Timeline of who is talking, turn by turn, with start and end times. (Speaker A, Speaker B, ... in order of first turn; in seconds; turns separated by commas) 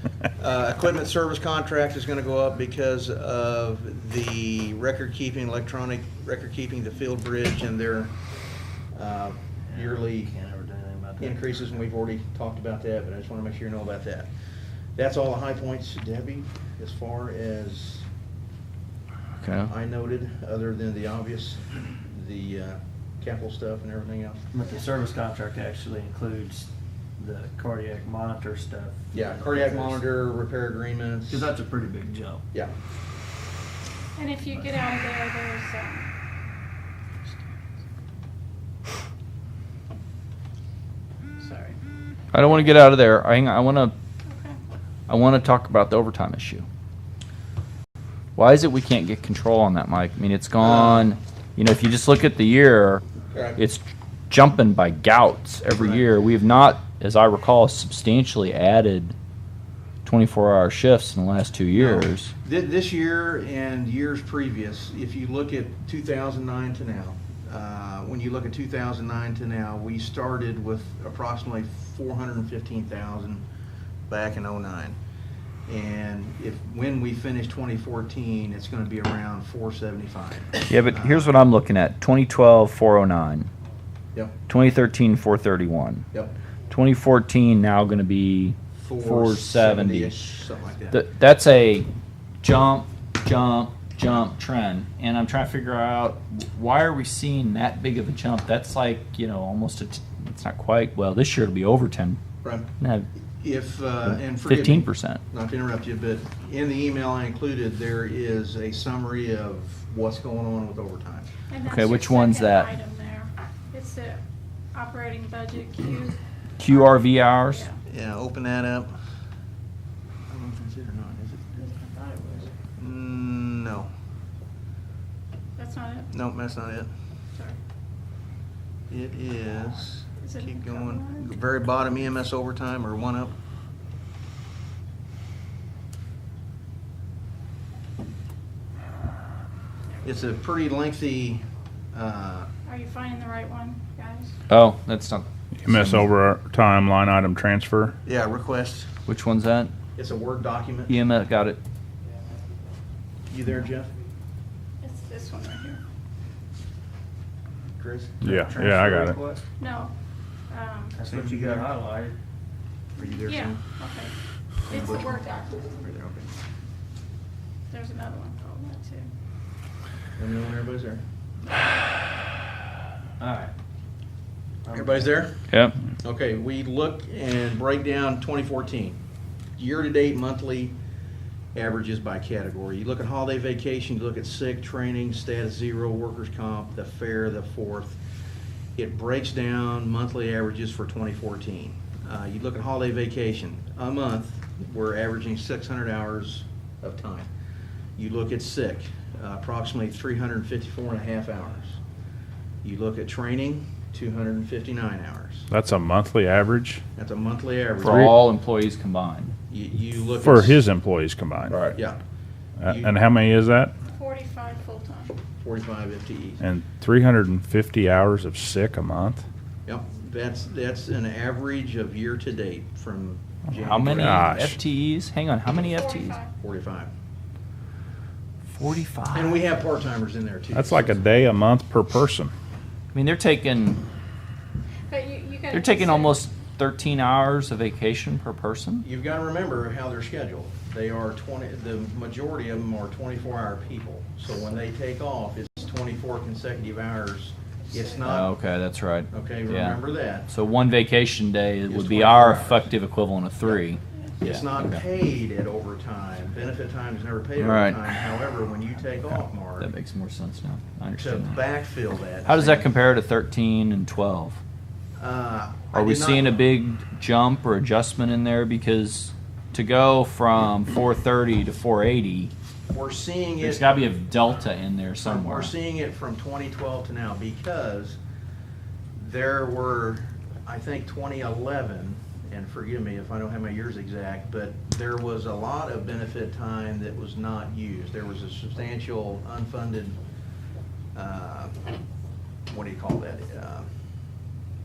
Speaker A: 0.3-8.1, Speaker A: 8.9-10.3, Speaker B: 9.7-11.4, Speaker A: 11.2-14.3, Speaker A: 14.9-18.1, Speaker C: 19.4-19.7, Speaker A: 19.6-24.4, Speaker B: 24.5-30.0, Speaker A: 29.1-31.5, Speaker B: 31.3-32.4, Speaker D: 34.1-36.1, Speaker D: 41.4-41.8, Speaker C: 42.3-43.9, Speaker D: 44.2-44.6, Speaker C: 45.1-46.7, Speaker C: 48.4-53.0, Speaker A: 50.6-51.1, Speaker A: 53.3-53.6, Speaker C: 53.6-59.1, Speaker A: 55.8-56.0, Speaker C: 60.0-62.3, Speaker A: 61.7-73.4, Speaker A: 74.1-75.0, Speaker A: 75.7-81.4, Speaker C: 80.6-83.5, Speaker C: 84.5-86.0, Speaker C: 86.7-90.2, Speaker A: 88.7-91.0, Speaker C: 90.9-91.9, Speaker C: 92.4-102.2, Speaker A: 102.4-102.7, Speaker C: 102.8-103.1, Speaker A: 103.4-111.3, Speaker C: 104.3-105.2, Speaker D: 111.5-114.2, Speaker C: 111.7-112.7, Speaker D: 114.7-117.8, Speaker C: 116.6-117.6, Speaker A: 117.8-118.9, Speaker A: 120.3-121.6, Speaker D: 121.6-122.5, Speaker A: 122.8-123.9, Speaker D: 125.6-126.1, Speaker A: 126.1-126.9, Speaker A: 128.9-133.3, Speaker D: 130.2-131.3, Speaker A: 140.0-142.5, Speaker D: 142.7-144.3, Speaker C: 144.5-146.1, Speaker E: 145.6-148.0, Speaker A: 148.0-148.9, Speaker C: 149.1-149.7, Speaker A: 149.9-151.0, Speaker C: 150.9-151.6, Speaker A: 153.3-153.9, Speaker D: 154.8-155.8, Speaker A: 157.8-158.2, Speaker E: 158.2-159.2, Speaker B: 158.3-159.4, Speaker D: 159.6-159.9, Speaker D: 160.5-161.0, Speaker B: 160.9-162.2, Speaker A: 161.0-161.7, Speaker A: 162.9-163.6, Speaker D: 163.2-164.1, Speaker D: 164.7-165.7, Speaker A: 164.7-166.3, Speaker D: 167.7-169.1, Speaker A: 170.2-171.0, Speaker B: 173.2-173.5, Speaker B: 174.7-175.0, Speaker A: 174.7-175.5, Speaker C: 175.5-175.8, Speaker A: 176.0-179.0, Speaker A: 179.6-180.7, Speaker A: 181.5-188.0, Speaker A: 188.8-197.3, Speaker A: 198.0-201.8, Speaker A: 202.6-205.5, Speaker E: 205.5-206.8, Speaker A: 207.0-208.1, Speaker C: 207.8-209.3, Speaker A: 209.5-210.6, Speaker E: 210.2-211.7, Speaker A: 211.7-212.0, Speaker E: 212.6-213.7, Speaker A: 212.6-212.9, Speaker D: 213.8-215.1, Speaker A: 215.4-216.4, Speaker E: 216.4-219.2, Speaker A: 219.7-224.5, Speaker C: 223.7-226.2, Speaker E: 223.8-224.6, Speaker D: 225.7-226.3, Speaker A: 226.4-226.9, Speaker C: 228.5-229.4, Speaker A: 229.1-231.0, Speaker E: 230.5-232.3, Speaker C: 232.9-233.8, Speaker D: 234.9-236.2, Speaker C: 235.5-238.8, Speaker A: 238.8-248.3, Speaker C: 248.0-254.8, Speaker A: 249.1-250.3, Speaker A: 251.7-252.7, Speaker A: 253.4-259.7, Speaker C: 257.4-257.9, Speaker C: 259.6-261.4, Speaker A: 261.0-262.7, Speaker C: 262.2-264.4, Speaker A: 265.0-266.3, Speaker C: 265.7-272.3, Speaker A: 272.7-273.6, Speaker C: 273.4-275.5, Speaker A: 275.0-278.0, Speaker A: 279.0-290.0, Speaker A: 290.9-291.5, Speaker A: 292.5-293.6